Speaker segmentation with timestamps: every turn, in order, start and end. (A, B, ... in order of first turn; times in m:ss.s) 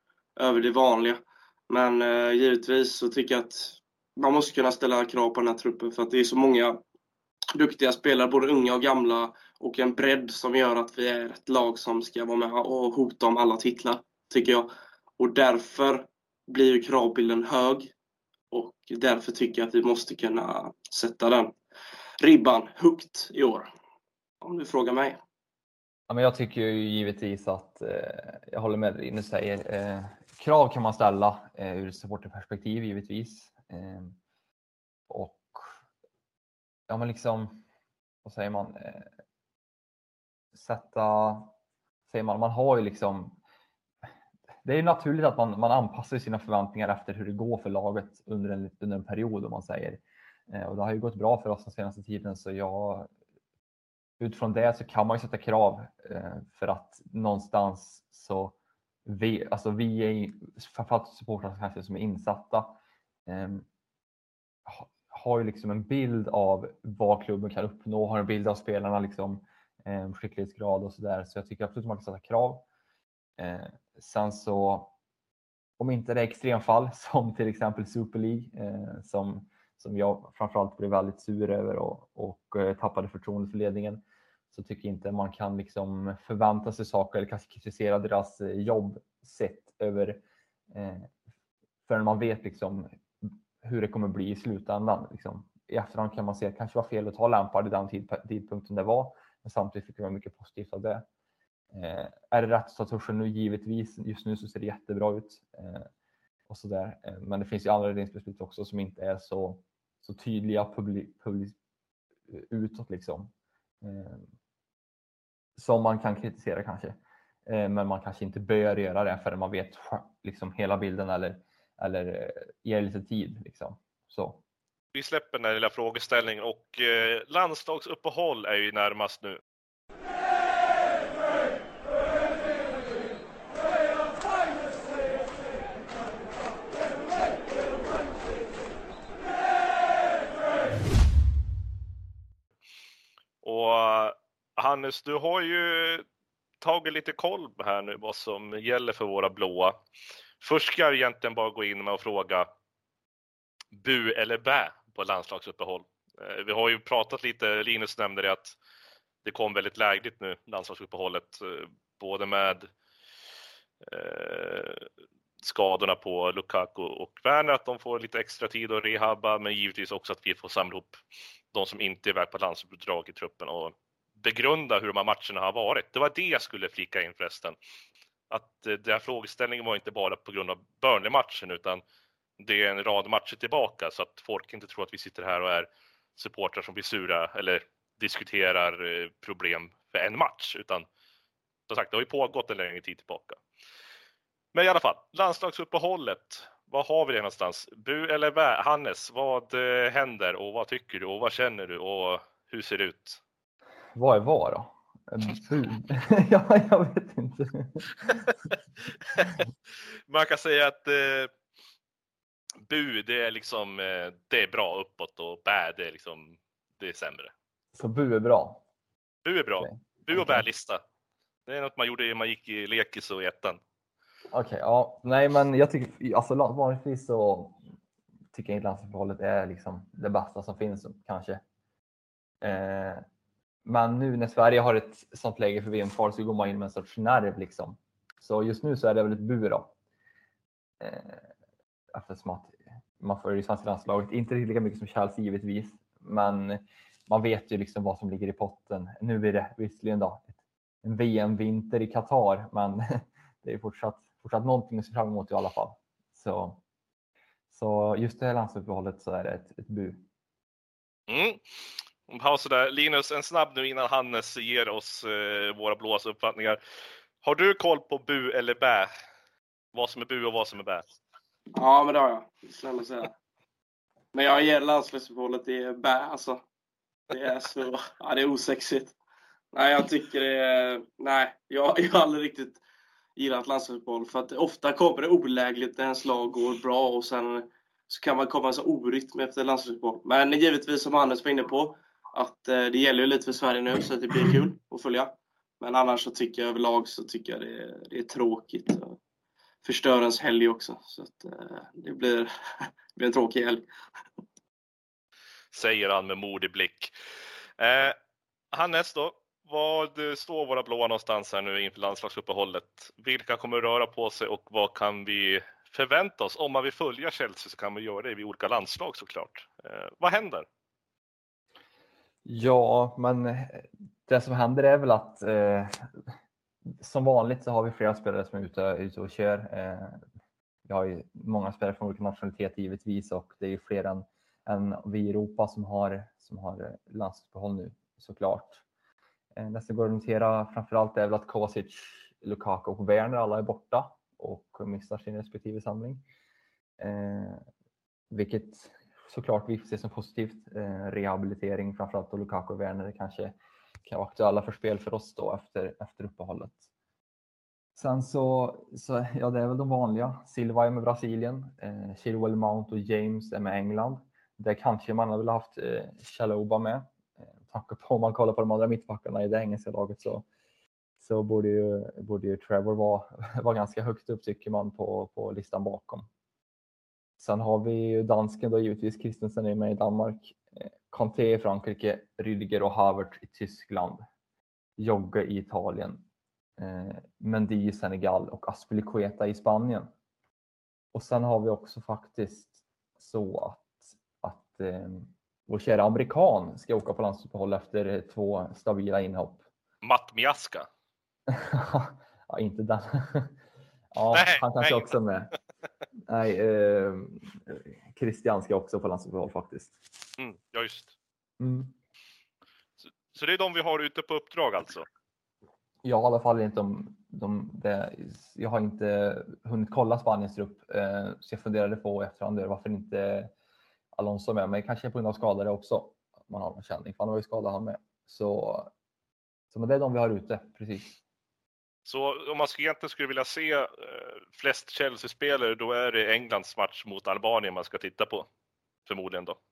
0:00.4-0:06.8 A
0:07.6-0:17.9 A
0:18.5-0:21.5 A
0:22.2-0:23.7 A
0:24.4-0:25.2 A
0:26.1-0:34.2 B
0:35.1-0:35.8 B
0:36.9-0:37.6 B
0:38.2-0:39.1 B
0:40.5-0:41.5 B
0:42.1-0:43.4 B
0:44.6-0:53.1 B
0:54.2-0:58.5 B
0:59.0-1:02.8 B
1:03.3-1:03.6 B
1:04.7-1:12.6 B
1:13.4-1:14.9 B
1:15.8-1:31.1 B
1:31.9-1:41.0 B
1:41.7-1:45.9 B
1:46.5-1:51.5 B
1:52.3-1:54.3 B
1:55.6-2:04.4 B
2:04.9-2:09.4 C
2:23.4-2:26.0 C
2:26.6-2:29.8 C
2:30.4-2:32.5 C
2:33.7-2:38.6 C
2:39.2-2:42.7 C
2:43.8-2:44.8 C
2:45.4-2:51.0 C
2:51.5-2:57.5 C
2:58.3-3:01.8 C
3:02.4-3:10.8 C
3:11.7-3:13.4 C
3:14.5-3:23.2 C
3:23.9-3:27.9 B
3:28.1-3:28.5 C
3:29.1-3:29.4 C
3:30.1-3:31.3 C
3:32.6-3:37.3 C
3:37.7-3:38.6 B
3:39.2-3:40.8 C
3:39.6-3:40.4 B
3:41.5-3:43.6 C
3:44.3-3:47.6 B
3:48.3-3:51.4 B
3:52.4-3:53.0 B
3:53.6-3:59.7 B
4:00.8-4:01.3 B
4:01.9-4:16.6 B
4:17.5-4:20.0 B
4:21.1-4:21.4 C
4:22.1-4:26.6 C
4:27.2-4:28.9 C
4:29.7-4:30.9 C
4:31.5-4:33.1 A
4:34.1-4:36.4 A
4:37.1-4:39.0 A
4:39.5-4:42.6 A
4:43.2-4:59.0 A
4:59.6-5:03.6 A
5:05.5-5:06.9 C
5:07.6-5:08.0 C
5:08.5-5:20.4 C
5:22.2-5:25.9 B
5:26.8-5:30.0 B
5:30.6-5:38.6 B
5:39.3-5:46.0 B
5:46.8-5:47.4 B
5:48.1-5:56.6 B
5:57.8-6:10.2 B
6:11.0-6:16.1 B
6:17.2-6:24.0 B
6:24.8-6:26.0 B
6:26.6-6:29.9 B
6:30.9-6:39.4 B
6:39.8-6:40.7 C
6:41.3-6:43.3 B
6:43.9-6:45.3 B
6:44.1-6:44.9 C
6:46.1-6:49.7 B
6:50.2-6:50.9 C
6:51.4-6:51.7 B
6:53.1-6:54.9 C
6:55.8-7:03.3 B
7:03.9-7:08.7 B
7:09.5-7:11.0 B
7:11.8-7:18.3 C
7:18.8-7:19.4 C